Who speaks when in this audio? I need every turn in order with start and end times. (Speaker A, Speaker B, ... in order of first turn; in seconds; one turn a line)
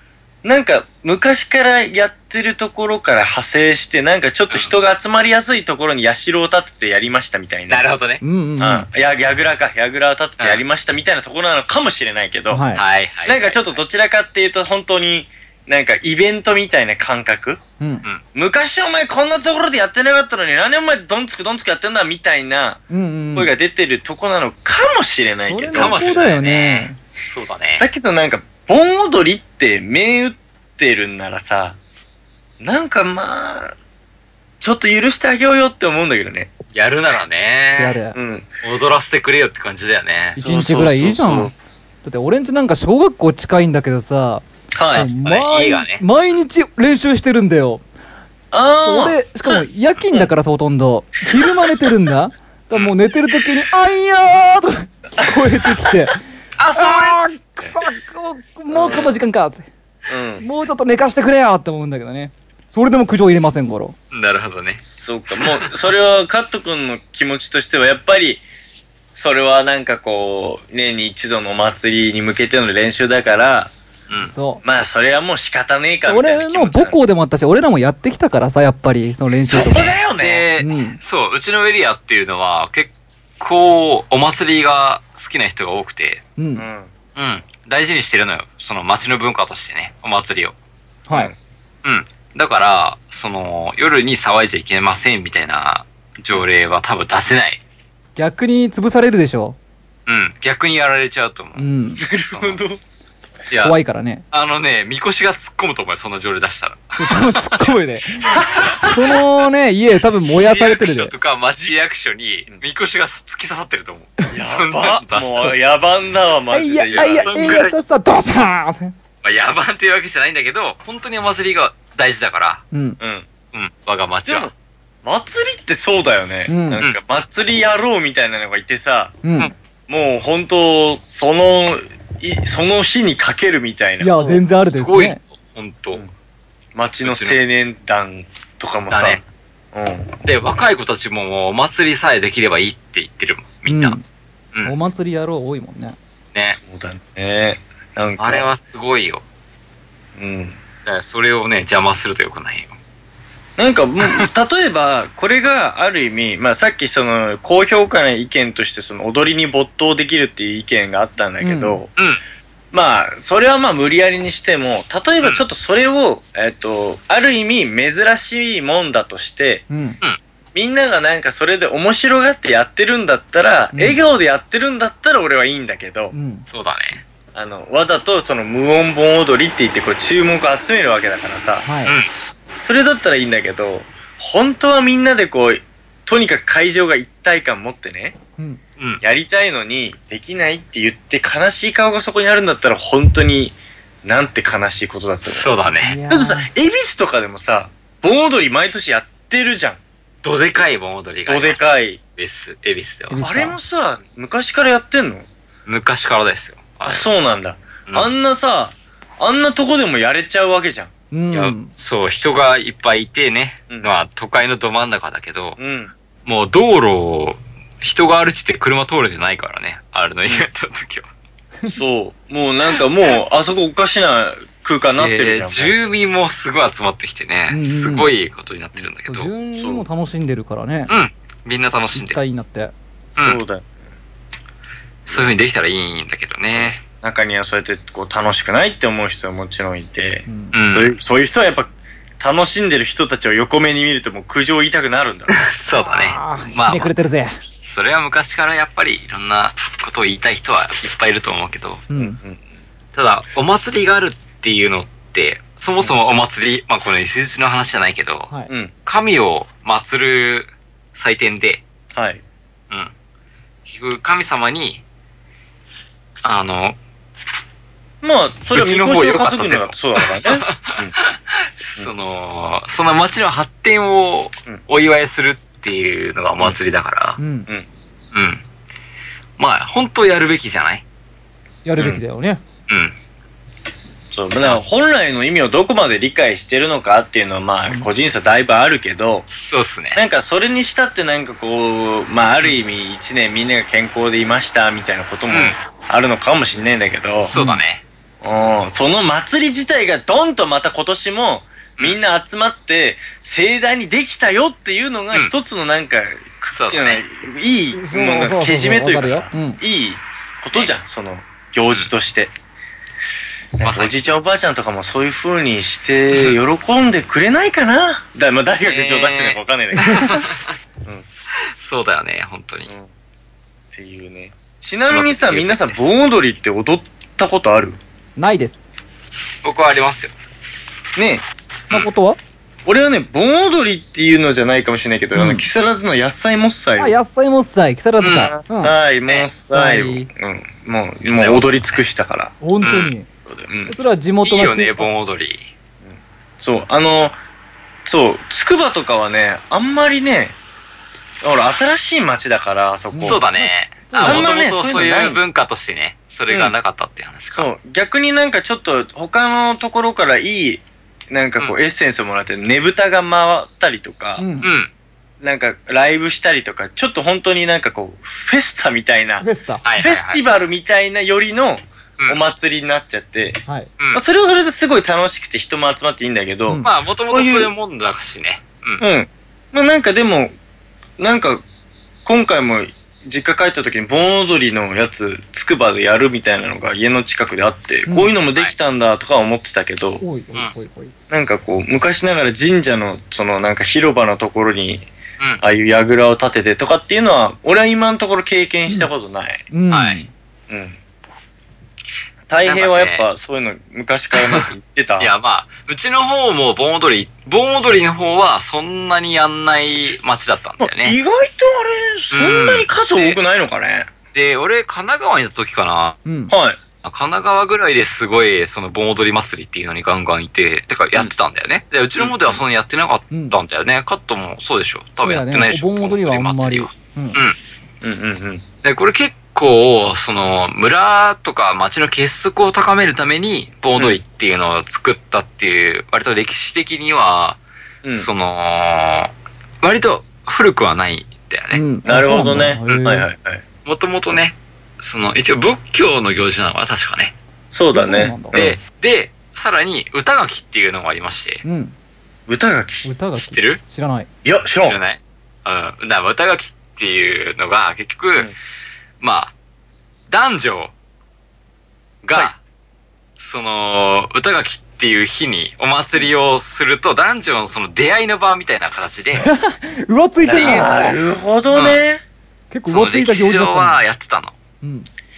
Speaker A: 0.4-7.9
Speaker B: 7.7-8.2
Speaker C: 8.2-8.9
Speaker A: 8.6-12.6
Speaker C: 12.5-12.8
Speaker B: 12.7-13.8
Speaker A: 13.2-17.6
Speaker C: 17.8-18.0
Speaker A: 18.3-22.8
Speaker C: 22.9-23.5
Speaker A: 23.3-26.0
Speaker C: 25.4-27.0
Speaker B: 25.7-27.8
Speaker A: 27.8-31.8
Speaker A: 32.6-33.7
Speaker A: 34.6-36.5
Speaker B: 36.7-38.0
Speaker C: 37.7-38.2
Speaker A: 38.1-38.5
Speaker B: 38.6-40.4
Speaker A: 40.3-41.5
Speaker C: 40.4-47.8
Speaker A: 44.7-45.1
Speaker B: 45.0-46.0
Speaker A: 48.5-49.2
Speaker C: 48.8-56.2
Speaker B: 56.6-57.3
Speaker C: 56.7-59.7
Speaker A: 58.7-59.2
Speaker A: 60.1-60.4
Speaker C: 60.4-64.0
Speaker B: 64.1-64.8
Speaker A: 64.8-68.4
Speaker B: 65.4-65.7
Speaker A: 69.1-73.7
Speaker C: 74.2-74.6
Speaker A: 74.6-77.0
Speaker C: 76.0-80.0
Speaker A: 79.5-80.5
Speaker B: 80.2-86.2
Speaker C: 80.6-81.0
Speaker C: 86.4-86.7
Speaker A: 86.5-86.9
Speaker B: 87.2-90.5
Speaker C: 91.1-91.3
Speaker B: 91.8-97.6
Speaker C: 98.2-99.6
Speaker B: 100.1-102.6
Speaker C: 101.6-102.0
Speaker A: 102.0-102.8
Speaker B: 103.5-103.8
Speaker C: 103.6-104.2
Speaker B: 104.3-107.7
Speaker C: 106.9-111.1
Speaker B: 108.3-108.9
Speaker B: 110.2-115.6
Speaker A: 114.3-117.7
Speaker C: 116.5-118.9
Speaker B: 116.9-117.7
Speaker B: 119.2-122.6
Speaker C: 122.7-123.0
Speaker A: 123.0-123.3
Speaker B: 123.5-124.5
Speaker A: 124.2-124.5
Speaker A: 125.0-129.2
Speaker C: 126.5-126.8
Speaker C: 129.2-129.5
Speaker A: 129.9-134.4
Speaker C: 134.0-135.2
Speaker B: 134.3-136.0
Speaker A: 136.7-139.2
Speaker B: 137.0-137.4
Speaker B: 138.9-139.2
Speaker A: 139.7-140.2
Speaker B: 140.2-144.0
Speaker C: 143.6-144.0
Speaker C: 144.6-146.0
Speaker A: 146.6-148.4
Speaker B: 148.2-149.2
Speaker A: 150.2-150.6
Speaker B: 150.8-152.8
Speaker A: 153.6-161.9
Speaker C: 161.4-161.8
Speaker A: 162.7-169.6
Speaker C: 169.7-170.0
Speaker A: 170.5-176.1
Speaker C: 173.7-174.0
Speaker C: 176.1-176.5
Speaker B: 176.5-177.0
Speaker A: 177.3-181.7
Speaker C: 181.6-181.9
Speaker B: 181.8-182.1
Speaker A: 182.6-188.2
Speaker A: 189.0-199.8
Speaker B: 195.2-196.0
Speaker C: 195.8-196.5
Speaker B: 200.2-203.2
Speaker A: 201.3-202.0
Speaker C: 203.1-203.6
Speaker A: 203.2-205.3
Speaker B: 205.7-207.1
Speaker A: 206.8-210.9
Speaker C: 211.1-211.7
Speaker B: 211.3-215.6
Speaker A: 215.6-215.9
Speaker B: 216.2-221.1
Speaker A: 221.6-225.8
Speaker B: 225.0-229.3
Speaker C: 227.5-228.1
Speaker C: 229.0-230.9
Speaker A: 229.6-229.8
Speaker B: 230.9-232.2
Speaker C: 231.9-232.7
Speaker A: 233.2-233.8
Speaker B: 235.1-236.8
Speaker A: 235.1-235.3
Speaker A: 236.5-241.7
Speaker C: 240.3-240.5
Speaker B: 240.5-240.9
Speaker A: 242.2-245.3
Speaker B: 245.3-251.8
Speaker C: 245.8-247.4
Speaker C: 251.9-252.2
Speaker A: 252.0-252.4
Speaker B: 252.9-258.3
Speaker B: 258.9-261.6
Speaker A: 261.9-262.2
Speaker B: 263.6-264.8
Speaker B: 266.2-266.8
Speaker A: 268.0-270.9
Speaker B: 268.5-277.2
Speaker C: 277.2-277.5
Speaker B: 278.1-278.4
Speaker B: 279.4-280.8
Speaker C: 281.6-282.4
Speaker B: 282.7-282.9
Speaker A: 284.1-289.3
Speaker B: 289.3-290.0
Speaker A: 289.9-297.3
Speaker B: 295.3-295.6
Speaker B: 297.2-297.8
Speaker C: 297.3-297.6
Speaker A: 298.2-312.3
Speaker B: 306.5-307.0
Speaker C: 307.7-309.6
Speaker A: 313.6-320.2
Speaker B: 313.6-314.0
Speaker B: 318.6-320.5
Speaker C: 319.8-320.2
Speaker B: 321.6-322.7
Speaker A: 323.7-327.8
Speaker B: 324.9-325.9
Speaker C: 328.2-328.6
Speaker B: 329.4-330.1
Speaker A: 330.9-331.2
Speaker C: 331.7-332.2
Speaker A: 332.6-337.0
Speaker C: 335.1-335.4
Speaker C: 336.8-338.7
Speaker B: 338.0-338.3
Speaker A: 338.2-342.3
Speaker C: 339.5-340.1
Speaker B: 341.1-341.6
Speaker C: 342.4-343.1
Speaker B: 342.6-342.9
Speaker A: 343.3-343.7
Speaker C: 343.7-344.9
Speaker B: 344.2-345.5
Speaker A: 345.8-347.2
Speaker A: 347.8-350.3
Speaker A: 351.2-353.2
Speaker C: 352.9-354.3
Speaker B: 353.1-357.5
Speaker A: 354.0-355.2
Speaker A: 357.3-364.3
Speaker C: 364.2-364.5
Speaker B: 364.4-364.7
Speaker A: 365.2-369.2
Speaker C: 369.2-369.6
Speaker B: 369.6-370.2
Speaker A: 369.8-373.4
Speaker A: 373.9-377.5
Speaker B: 376.6-378.8
Speaker A: 378.8-380.3
Speaker A: 381.0-381.4
Speaker A: 382.0-390.0
Speaker C: 387.9-388.1
Speaker C: 390.0-390.9
Speaker A: 391.1-394.9
Speaker A: 395.4-399.4
Speaker C: 399.5-400.1
Speaker B: 399.7-400.0
Speaker A: 400.5-400.8
Speaker A: 402.3-405.1
Speaker B: 402.4-403.0
Speaker B: 404.1-411.0
Speaker A: 410.6-413.9
Speaker B: 412.1-413.2
Speaker B: 414.1-416.0
Speaker C: 416.0-416.3
Speaker A: 416.3-416.6
Speaker B: 416.8-427.4
Speaker A: 422.0-422.4
Speaker C: 423.1-423.4
Speaker C: 425.0-427.2
Speaker A: 427.8-428.4
Speaker B: 428.6-437.4
Speaker A: 437.8-438.1
Speaker B: 437.9-441.6
Speaker C: 441.5-443.1
Speaker A: 441.8-443.4
Speaker B: 443.6-447.1
Speaker A: 447.5-448.6
Speaker C: 447.7-448.4
Speaker B: 448.3-451.4
Speaker C: 451.4-451.7
Speaker A: 452.3-452.9
Speaker C: 452.8-454.1
Speaker B: 453.1-453.6
Speaker A: 454.2-454.8
Speaker B: 454.7-458.3
Speaker B: 459.0-459.3
Speaker B: 460.1-460.7
Speaker B: 462.0-462.4
Speaker B: 463.2-469.2
Speaker C: 469.2-470.9
Speaker A: 470.2-472.0
Speaker B: 471.5-471.8
Speaker C: 472.5-473.8
Speaker B: 472.6-474.3
Speaker C: 474.6-474.9